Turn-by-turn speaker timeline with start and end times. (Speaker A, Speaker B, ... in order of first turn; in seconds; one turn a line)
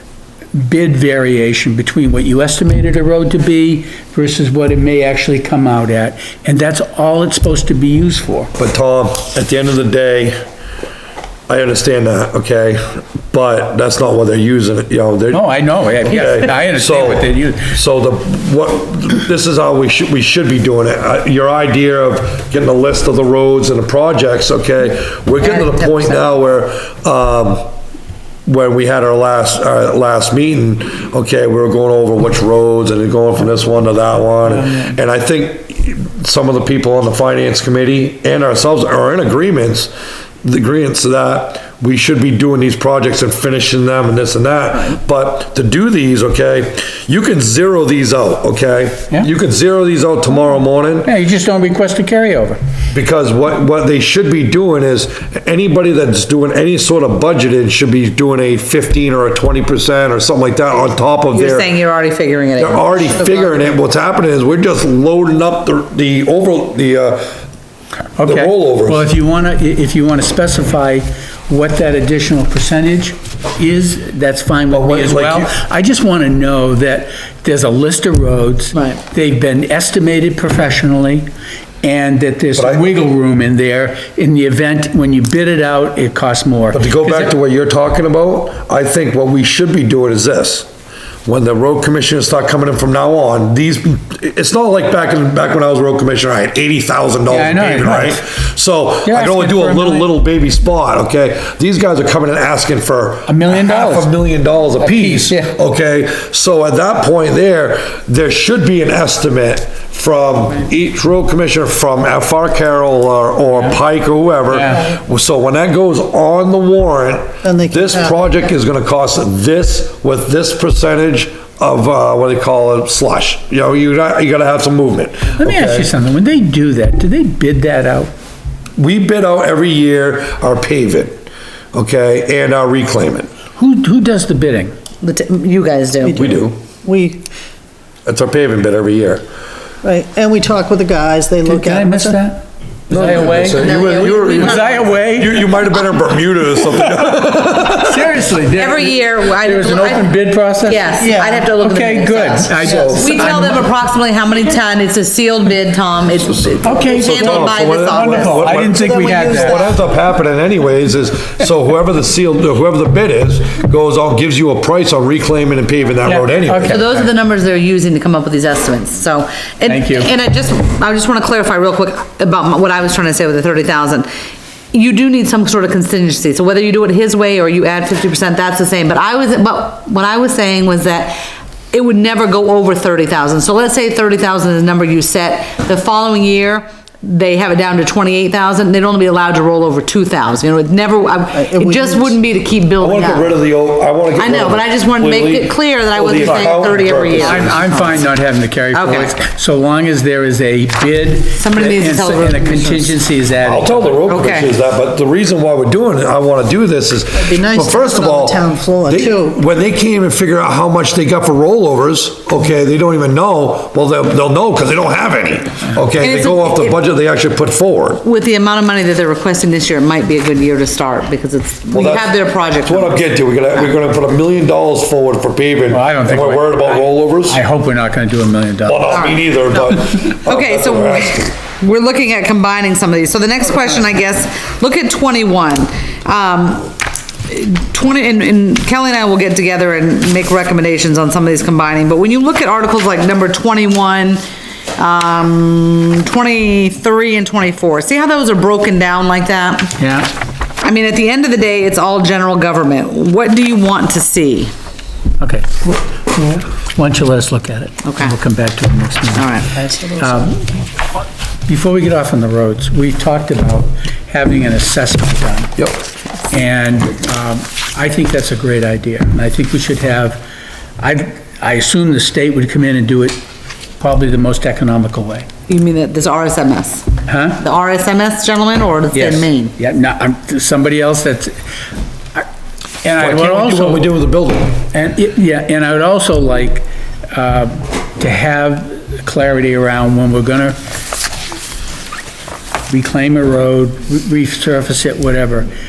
Speaker A: 0.5-8.5
Speaker B: 8.6-10.4
Speaker B: 11.5-15.5
Speaker A: 15.3-17.7
Speaker B: 16.0-27.7
Speaker C: 25.4-26.3
Speaker B: 28.5-39.9
Speaker B: 40.4-51.1
Speaker A: 51.0-52.6
Speaker B: 52.9-61.7
Speaker C: 61.3-63.5
Speaker B: 62.6-67.3
Speaker A: 68.2-81.3
Speaker B: 68.2-69.1
Speaker B: 74.7-75.5
Speaker A: 81.8-87.3
Speaker B: 82.5-82.9
Speaker B: 86.7-90.7
Speaker B: 91.2-125.9
Speaker A: 97.3-98.2
Speaker A: 99.0-100.1
Speaker A: 103.3-104.1
Speaker A: 104.8-105.5
Speaker A: 114.5-114.9
Speaker D: 117.4-118.2
Speaker A: 125.4-128.1
Speaker B: 128.8-133.3
Speaker A: 133.6-134.7
Speaker C: 135.0-136.4
Speaker B: 136.1-136.6
Speaker D: 136.8-137.2
Speaker B: 138.1-139.2
Speaker D: 139.8-142.2
Speaker A: 141.5-145.4
Speaker B: 142.9-148.1
Speaker C: 143.4-144.9
Speaker A: 146.8-150.9
Speaker C: 148.6-150.1
Speaker C: 150.6-158.4
Speaker D: 151.0-151.5
Speaker A: 151.6-153.7
Speaker B: 152.6-153.3
Speaker B: 156.3-166.8
Speaker A: 156.6-159.7
Speaker D: 158.5-159.8
Speaker A: 166.0-167.1
Speaker C: 166.7-174.1
Speaker A: 169.7-170.1
Speaker C: 174.7-181.2
Speaker C: 181.7-193.3
Speaker D: 191.3-192.2
Speaker B: 192.8-197.6
Speaker C: 194.2-198.0
Speaker A: 196.2-196.5
Speaker A: 197.2-204.1
Speaker C: 198.7-199.2
Speaker C: 201.4-202.9
Speaker B: 203.4-218.0
Speaker C: 204.1-204.5
Speaker D: 207.2-209.4
Speaker C: 216.0-216.8
Speaker C: 218.0-223.0
Speaker B: 221.7-227.4
Speaker A: 225.7-228.9
Speaker B: 228.7-231.3
Speaker C: 228.9-244.2
Speaker C: 244.8-249.8
Speaker A: 249.8-250.1
Speaker C: 250.6-254.5
Speaker A: 255.2-259.4
Speaker C: 257.8-258.2
Speaker C: 259.2-259.6
Speaker D: 259.6-260.3
Speaker A: 260.0-260.4
Speaker A: 261.5-265.6
Speaker A: 266.3-270.2
Speaker A: 270.8-273.2
Speaker A: 273.8-275.3
Speaker C: 275.5-279.5
Speaker A: 277.1-277.4
Speaker A: 278.9-281.4
Speaker A: 282.8-283.9
Speaker B: 283.0-284.6
Speaker A: 284.7-290.6
Speaker A: 292.7-295.5